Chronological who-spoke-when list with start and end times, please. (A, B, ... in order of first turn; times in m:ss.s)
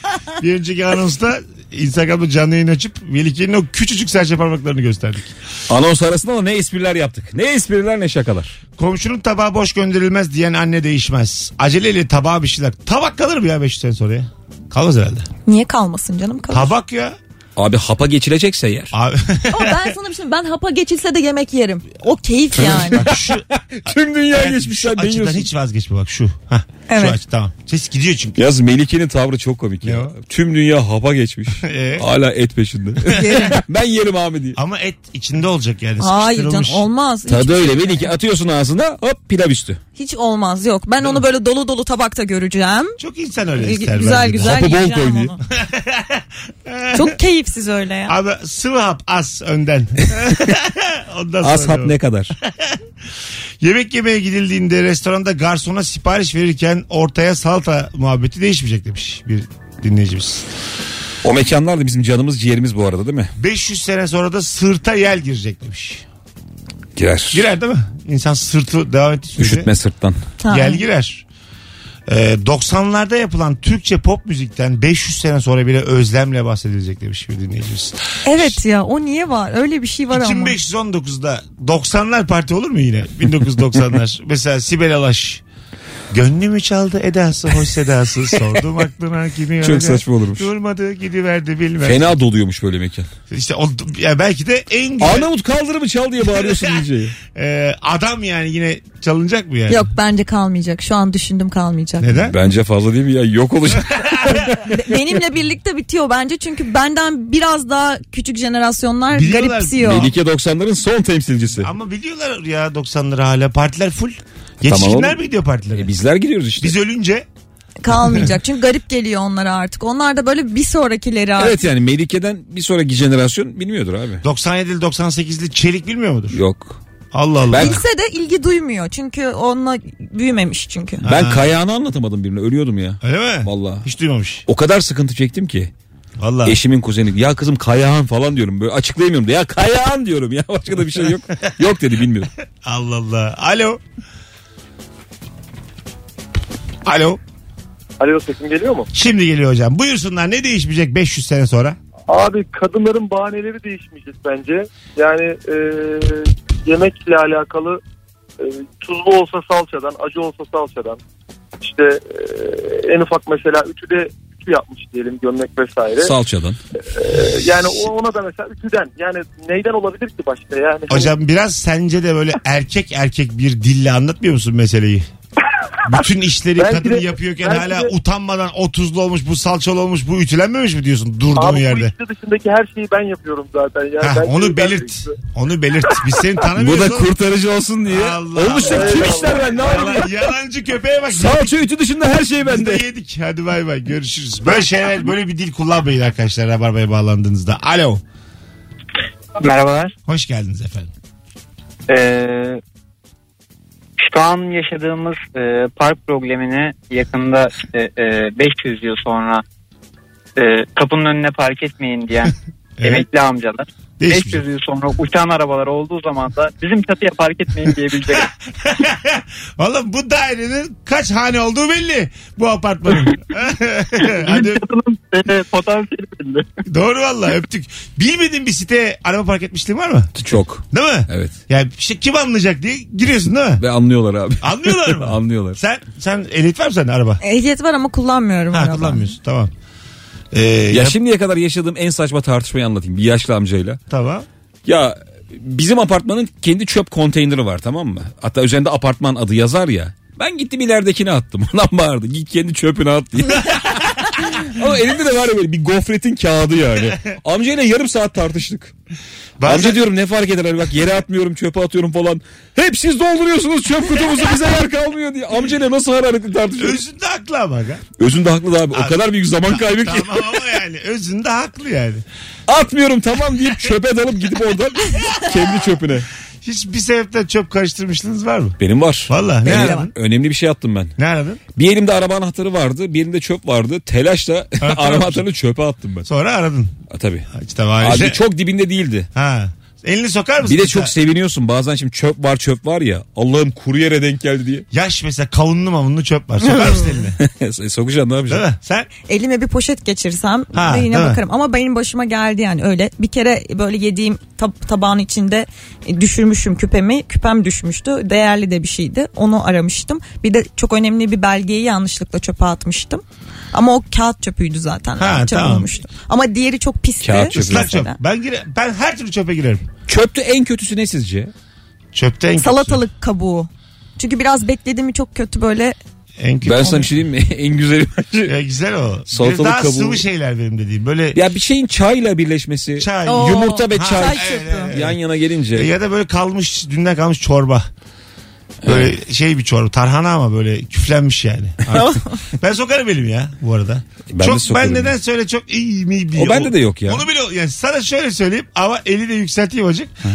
0:00.4-0:05.3 A
0:05.7-0:08.5 B
0:08.8-0:15.3 A
0:15.4-0:16.7 C
0:16.5-0:17.2 A
0:17.6-0:18.9 B
0:18.9-0:19.8 A
0:19.5-0:23.0 C
0:22.6-0:28.4 A
0:22.6-0:25.5 B
0:26.9-0:27.2 C
0:28.4-0:34.6 B
0:29.8-0:30.1 A
0:31.6-0:32.0 A
0:33.1-0:33.6 C
0:34.5-0:36.8 A
0:36.0-0:38.0 C
0:37.3-0:39.8 B
0:40.0-0:43.0 C
0:43.0-0:44.6 A
0:43.6-0:45.4 C
0:44.4-0:45.3 B
0:45.5-0:47.1 A
0:46.9-0:48.2 C
0:48.0-0:52.8 A
0:51.4-0:52.3 B
0:53.6-1:00.5 A
1:01.2-1:03.3 B
1:03.4-1:06.0 A
1:07.0-1:07.4 B
1:07.3-1:09.7 A
1:09.4-1:10.2 B
1:10.4-1:10.8 C
1:10.5-1:11.2 A
1:12.1-1:18.6 A
1:18.2-1:20.6 C
1:20.1-1:25.4 A
1:26.1-1:32.1 A
1:29.6-1:30.5 B
1:31.8-1:33.1 B
1:33.3-1:35.3 A
1:35.0-1:37.2 B
1:36.4-1:36.7 A
1:37.3-1:39.8 A
1:39.7-1:42.1 C
1:42.0-1:42.4 A
1:42.3-1:44.5 B
1:43.9-1:44.4 A
1:44.5-1:50.1 C
1:49.1-1:50.1 A
1:49.8-1:51.7 B
1:51.6-1:55.9 A
1:54.6-1:55.2 B
1:55.8-1:56.8 B
1:56.6-1:57.3 A
1:57.8-2:01.6 C
2:01.4-2:04.2 B
2:04.2-2:06.4 A
2:06.3-2:06.8 B
2:07.1-2:07.8 A
2:07.5-2:07.8 B
2:07.6-2:11.0 C
2:11.0-2:11.5 A
2:11.0-2:13.8 B
2:13.0-2:14.4 A
2:14.5-2:15.7 B
2:16.2-2:16.6 A
2:16.4-2:22.3 B
2:22.6-2:23.8 A
2:26.8-2:27.2 A
2:28.0-2:28.9 D
2:28.9-2:31.8 A
2:32.1-2:37.8 D
2:38.4-2:41.0 D
2:41.6-2:46.1 D
2:46.0-2:46.6 B
2:46.9-2:51.1 D
2:50.9-2:55.1 A
2:55.8-3:01.9 A
2:56.6-2:57.9 D
3:01.3-3:05.2 D
3:04.0-3:07.1 A
3:06.6-3:10.1 B
3:07.9-3:11.5 A
3:08.6-3:10.0 D
3:11.1-3:12.8 B
3:12.4-3:18.0 A
3:19.4-3:19.9 E
3:20.0-3:20.9 A
3:21.9-3:22.6 E
3:24.0-3:29.4 E
3:30.4-3:32.3 E
3:32.8-3:33.0 A
3:32.8-3:38.2 E
3:34.0-3:34.4 A
3:38.1-3:44.6 A
3:44.0-3:46.4 D
3:46.6-3:50.1 A
3:50.2-3:51.3 B
3:50.7-3:53.6 A
3:53.6-3:55.6 B
3:54.4-3:57.2 A
3:57.2-3:59.1 C
3:58.5-3:59.5 A
4:00.3-4:01.0 A
4:00.7-4:03.8 B
4:03.9-4:04.3 A
4:04.6-4:18.7 B
4:19.4-4:19.8 A
4:19.4-4:26.8 B
4:26.6-4:27.8 A
4:28.0-4:30.4 B
4:28.7-4:32.0 A
4:32.5-4:36.1 B
4:34.9-4:35.4 A
4:36.4-4:38.6 A
4:38.6-4:40.9 B
4:39.1-4:39.9 A
4:39.4-4:39.9 C
4:41.0-4:41.4 A
4:41.6-4:46.1 B
4:44.6-4:45.2 A
4:46.0-4:46.7 A
4:46.9-4:47.3 B
4:47.3-4:48.2 A
4:47.8-4:49.1 B
4:49.1-4:50.9 A
4:50.4-4:54.6 B
4:54.7-4:57.2 A
4:57.2-4:58.4 B
4:58.3-4:58.9 A
4:59.1-5:18.0 C
5:00.5-5:01.2 A
5:15.0-5:15.7 A
5:17.0-5:17.9 B
5:17.3-5:19.6 A
5:19.9-5:21.3 B
5:21.9-5:22.8 A
5:22.4-5:25.8 C
5:26.2-5:26.9 A
5:26.4-5:28.3 B
5:28.2-5:31.2 A
5:29.1-5:30.0 B
5:31.1-5:35.7 B
5:32.8-5:35.0 A
5:33.0-5:34.7 C
5:35.5-5:37.7 A
5:38.6-5:38.9 B
5:38.6-5:50.0 A
5:41.7-5:42.1 C
5:44.1-5:44.9 B
5:46.2-5:47.0 B